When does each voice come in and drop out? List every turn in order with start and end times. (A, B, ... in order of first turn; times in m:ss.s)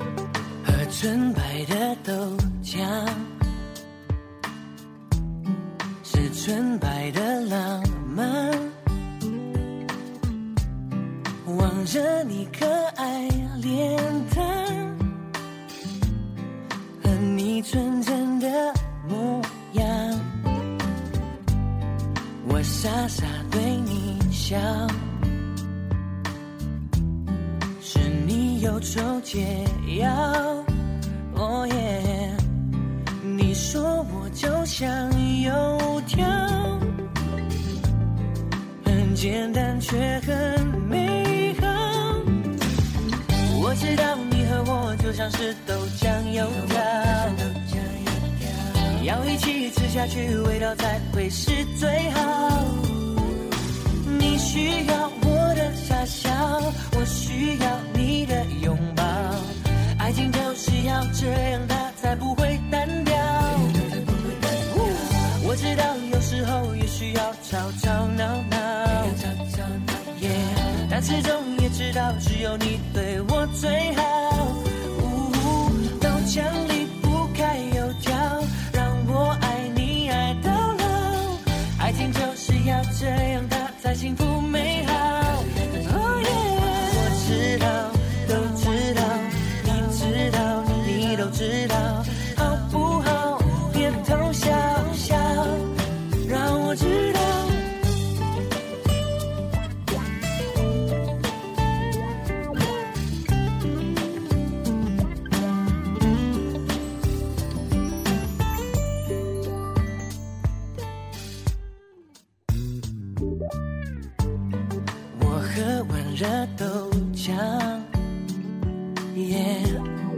0:00.6-0:03.4 A
0:06.0-0:08.8 A
0:11.4-0:15.2 A
0:17.0-0:20.5 A
0:22.4-0:25.2 A
0:27.8-0:30.7 A
0:31.3-0:32.6 A
0:33.2-0:37.0 A
0:38.8-0:42.5 A
0:43.4-0:53.2 A
0:54.0-1:35.7 A
1:36.2-1:37.8 A
1:55.1-1:58.0 A
1:59.1-1:59.9 A